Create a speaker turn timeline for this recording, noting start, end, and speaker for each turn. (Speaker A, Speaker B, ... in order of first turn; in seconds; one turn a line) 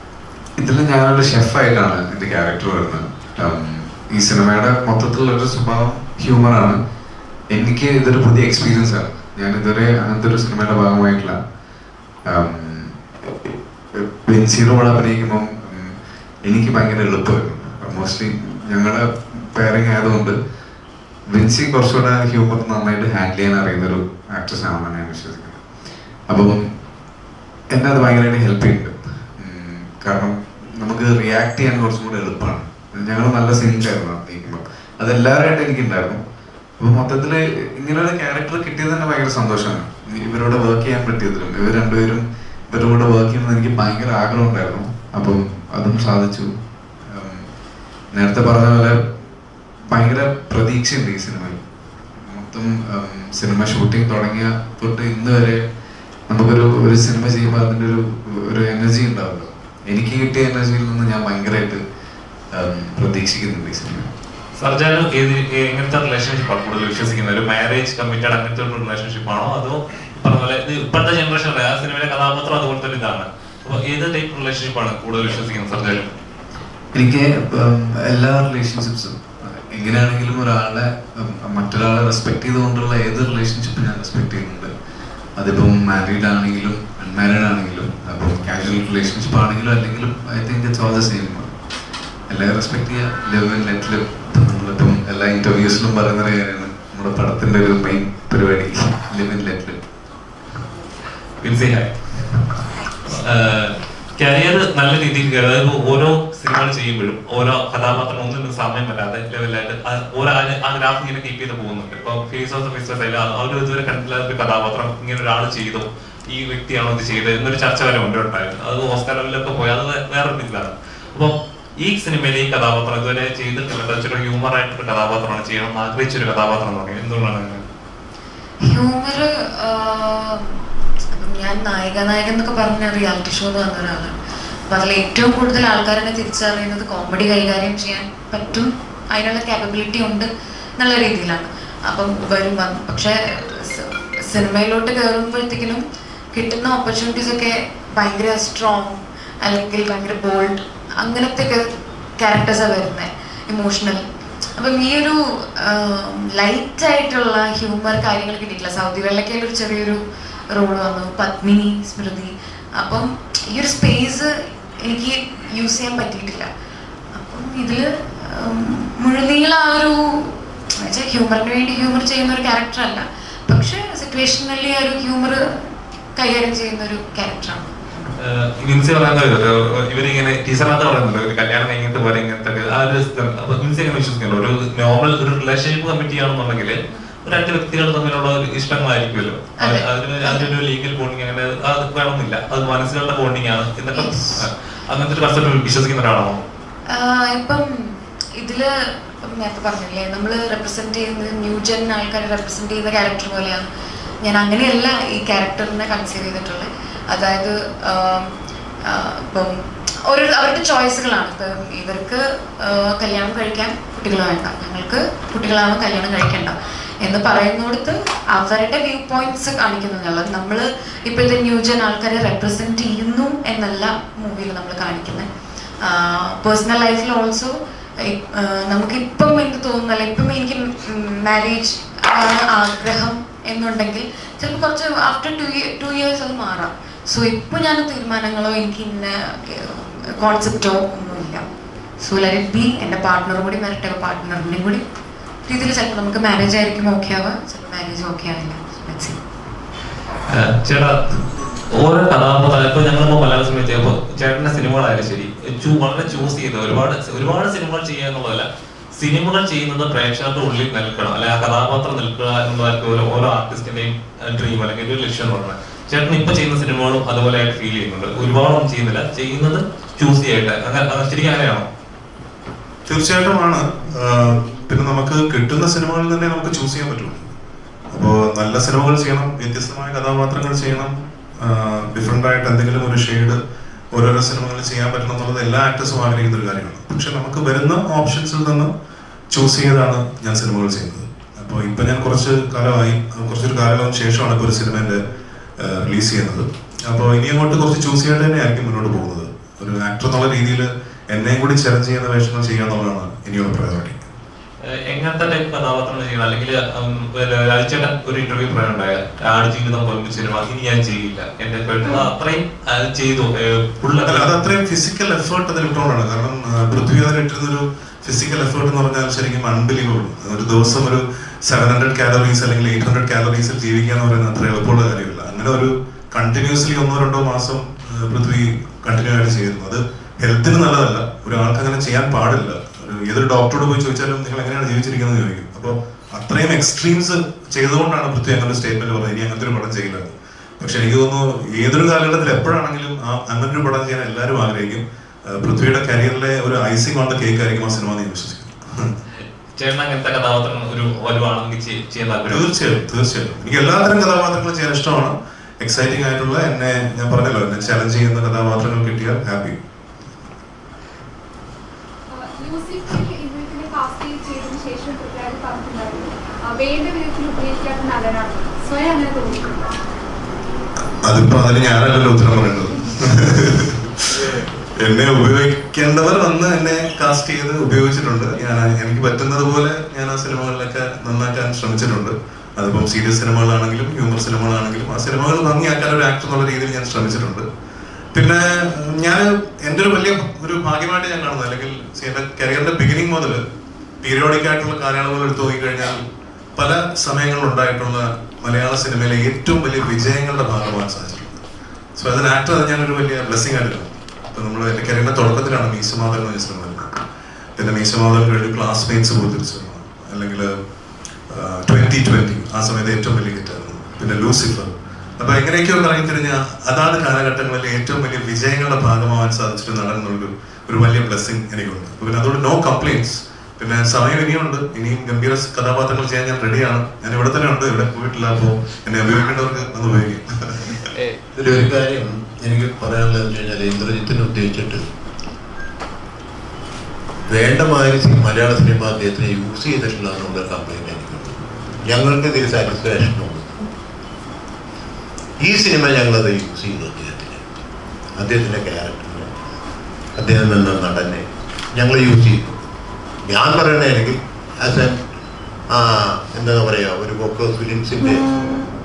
Speaker A: 0.6-6.8
Speaker A: 7.5-11.4
Speaker A: 12.3-20.4
Speaker A: 21.3-25.6
Speaker A: 26.3-26.7
Speaker A: 27.7-36.2
Speaker A: 36.8-47.5
Speaker A: 48.1-49.0
Speaker A: 49.9-51.6
Speaker A: 52.2-55.6
Speaker A: 56.3-61.8
Speaker A: 62.5-64.1
Speaker B: 64.6-76.2
Speaker A: 76.9-84.7
Speaker A: 85.3-91.5
Speaker A: 92.3-99.8
Speaker B: 101.4-102.2
Speaker B: 103.1-127.6
Speaker C: 128.7-130.6
Speaker C: 131.1-134.2
Speaker C: 134.7-151.7
Speaker C: 152.2-154.0
Speaker C: 154.6-160.0
Speaker C: 160.5-166.5
Speaker C: 167.1-175.6
Speaker C: 176.2-177.7
Speaker B: 178.2-196.4
Speaker C: 189.6-190.5
Speaker C: 193.9-194.4
Speaker C: 196.9-198.7
Speaker C: 199.2-203.7
Speaker C: 204.2-208.3
Speaker C: 208.8-225.3
Speaker C: 225.8-241.4
Speaker C: 242.0-244.8
Speaker C: 245.5-249.2
Speaker B: 250.3-251.0
Speaker B: 251.7-271.7
Speaker D: 272.9-277.3
Speaker D: 277.9-283.4
Speaker D: 283.9-288.7
Speaker D: 289.3-295.0
Speaker D: 295.6-304.1
Speaker B: 304.6-314.3
Speaker D: 314.1-348.9
Speaker B: 349.6-352.6
Speaker D: 352.3-359.6
Speaker E: 362.1-369.6
Speaker D: 371.0-387.4
Speaker D: 388.1-393.4
Speaker D: 394.0-401.4
Speaker D: 402.0-406.9
Speaker D: 407.6-410.5
Speaker D: 411.3-430.9
Speaker B: 430.9-431.2
Speaker F: 431.4-434.8
Speaker F: 437.3-443.7
Speaker F: 445.4-447.4
Speaker F: 448.2-449.3
Speaker F: 450.2-452.6
Speaker F: 453.2-455.0
Speaker F: 455.7-458.5